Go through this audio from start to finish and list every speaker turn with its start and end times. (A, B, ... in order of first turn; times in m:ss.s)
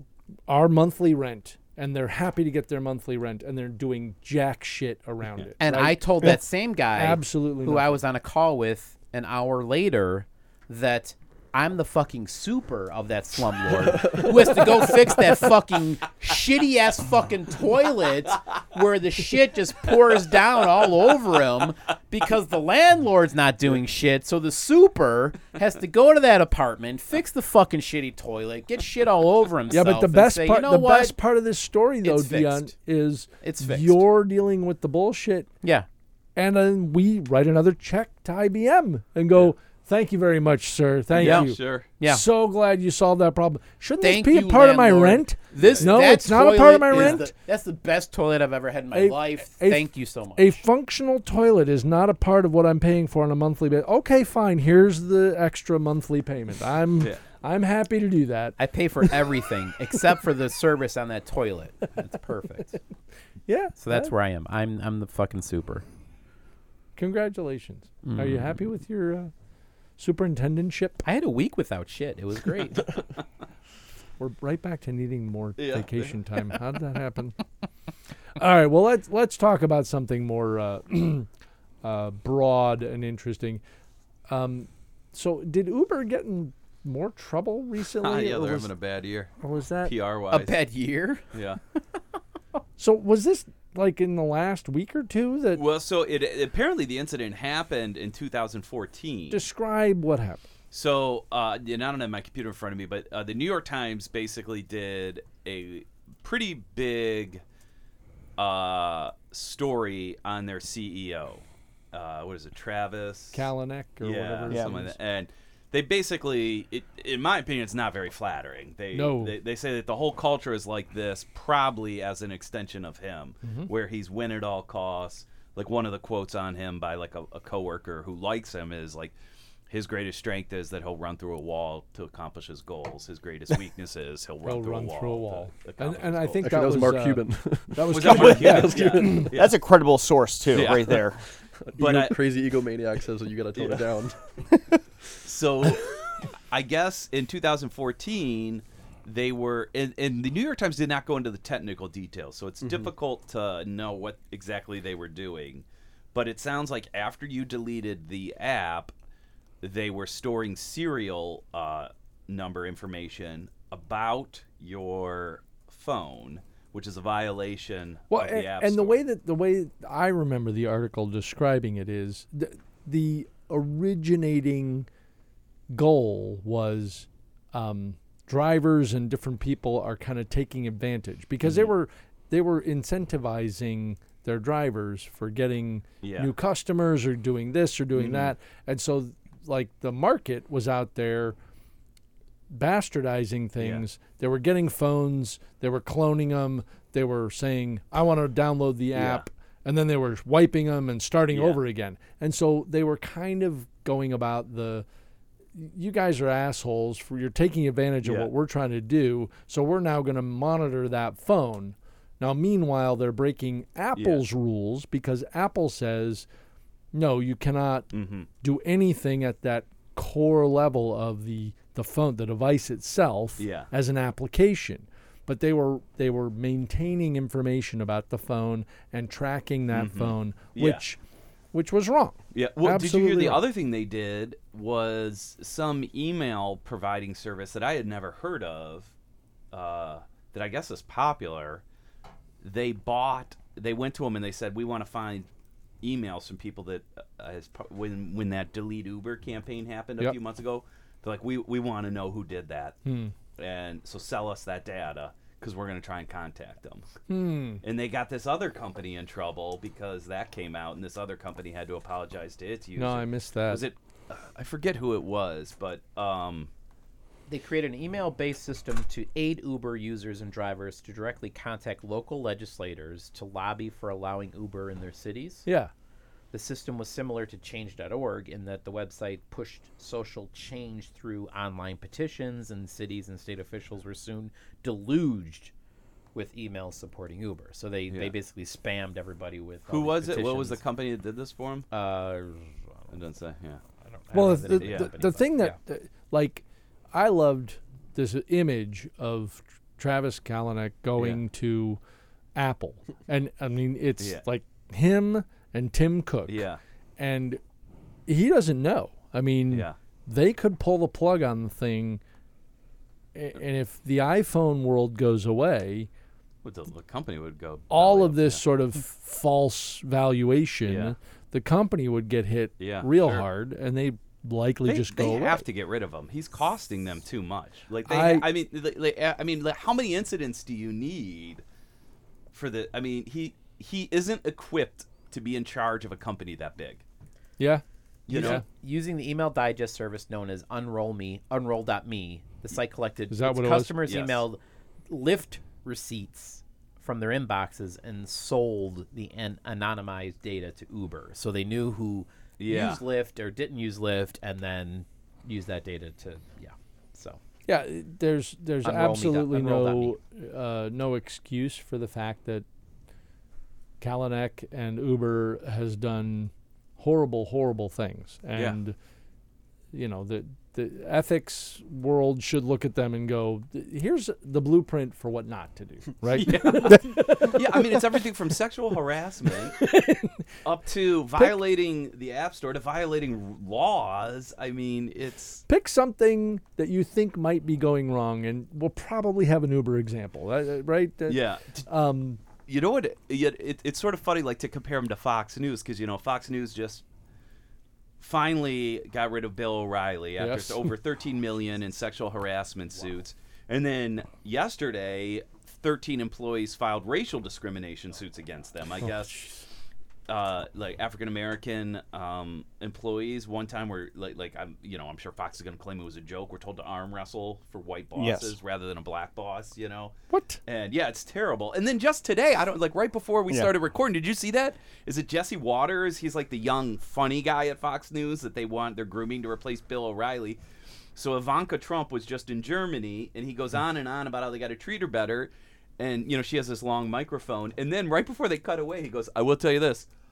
0:00.5-0:06.3 A
0:05.6-0:31.1 B
0:07.0-0:07.9 A
0:29.7-0:35.5 A
0:32.0-0:32.7 B
0:33.4-0:34.0 B
0:36.4-0:47.3 A
0:41.2-0:41.9 C
0:41.2-0:42.2 B
0:44.0-0:50.6 B
0:45.6-0:45.9 C
0:48.9-0:58.6 A
0:58.6-1:02.8 B
1:03.5-1:04.1 A
1:03.8-1:05.8 B
1:07.0-1:09.3 A
1:08.0-1:08.5 B
1:10.0-1:11.0 A
1:11.0-1:12.9 B
1:14.2-1:17.4 A
1:15.6-1:16.1 C
1:18.4-1:21.3 A
1:21.8-1:23.6 A
1:24.3-1:28.7 A
1:27.8-1:29.3 C
1:29.4-1:29.9 A
1:29.8-1:30.5 C
1:30.3-1:31.2 B
1:31.3-1:31.6 C
1:32.8-1:35.6 A
1:35.5-1:39.4 C
1:39.3-1:40.5 A
1:40.7-1:47.4 C
1:48.4-1:53.5 C
1:53.3-1:55.0 A
1:54.0-2:09.1 C
1:58.9-1:59.3 A
2:03.4-2:03.7 A
2:09.7-2:16.6 C
2:14.4-2:19.3 A
2:16.4-2:19.3 D
2:17.9-2:19.6 C
2:19.3-2:21.2 E
2:20.5-2:21.1 C
2:21.7-2:24.2 D
2:21.8-2:22.3 C
2:23.6-2:23.9 C
2:25.2-2:38.9 C
2:32.6-2:32.9 D
2:39.6-2:49.0 C
2:48.1-2:54.9 A
2:55.7-3:11.4 A
3:01.4-3:01.7 C
3:06.0-3:06.3 C
3:07.9-3:08.3 C
3:12.5-3:24.8 A
3:13.6-3:13.8 C
3:18.9-3:19.2 C
3:21.3-3:21.6 C
3:25.6-3:36.2 A
3:28.0-3:28.3 C
3:34.0-3:34.2 C
3:36.9-3:37.9 A
3:37.9-3:38.3 C
3:38.4-3:51.0 A
3:43.4-3:43.7 C
3:49.7-3:50.8 C
3:51.5-3:53.4 A
3:52.3-3:58.9 C
3:59.5-4:01.6 C
4:02.4-4:05.3 C
4:05.8-4:12.8 C
4:12.8-4:13.1 A
4:13.4-4:16.9 C
4:17.1-4:17.6 A
4:17.6-4:26.5 C
4:22.8-4:23.6 A
4:27.3-4:35.4 B
4:35.4-4:35.7 A
4:36.3-4:45.5 B
4:46.1-4:50.6 B
4:49.7-4:51.7 C
4:51.7-4:52.9 B
4:52.9-4:53.6 C
4:53.8-4:55.6 B
4:54.1-5:01.8 A
4:54.6-4:54.9 C
5:02.4-5:06.4 A
5:06.3-5:06.6 C
5:07.0-5:07.4 A
5:08.1-5:12.0 A
5:09.5-5:09.8 C
5:13.1-5:15.9 A
5:16.4-5:18.4 C
5:17.7-5:25.4 A
5:20.6-5:20.9 C
5:22.6-5:23.2 C
5:24.6-5:31.4 C
5:27.9-5:28.3 A
5:32.3-5:36.8 C
5:37.4-5:38.4 A
5:38.1-5:38.4 C
5:38.1-5:57.2 B
5:43.1-5:43.8 A
5:43.8-5:44.2 C
5:52.4-5:52.8 C
5:57.4-6:02.4 A
5:58.6-5:59.9 B
6:03.8-6:08.7 A
6:09.7-6:17.4 A
6:16.1-6:19.7 C
6:19.6-6:20.1 A
6:20.4-6:25.4 C
6:25.5-6:32.2 A
6:31.1-6:31.7 C
6:32.5-6:36.8 C
6:38.0-6:49.2 C
6:40.2-6:40.7 A
6:48.8-6:49.4 A
6:50.1-6:59.9 C
6:58.0-6:58.3 E
7:00.1-7:00.4 A
7:00.4-7:10.4 C
7:11.0-7:19.9 C